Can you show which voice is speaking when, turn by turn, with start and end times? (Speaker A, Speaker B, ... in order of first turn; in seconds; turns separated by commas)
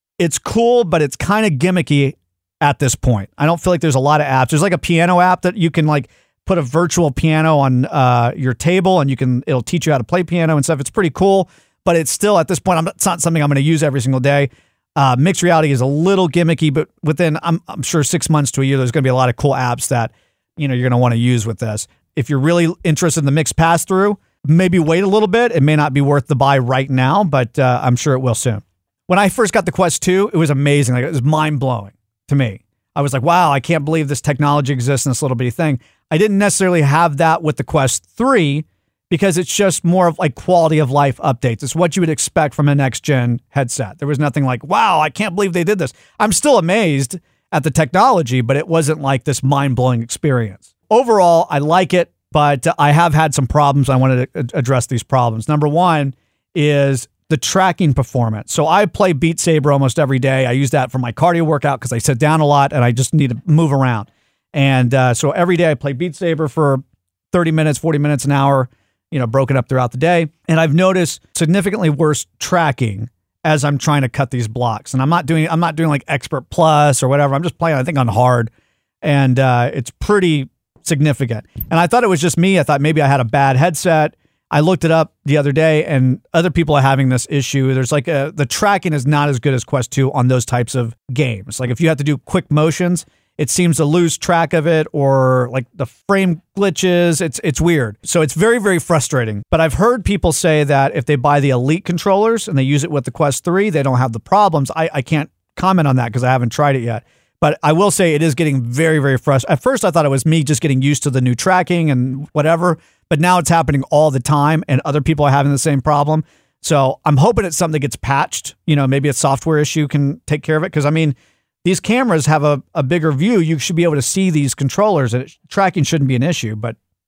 Speaker A: 0.2-78.5, Speaker A: 79.0-126.8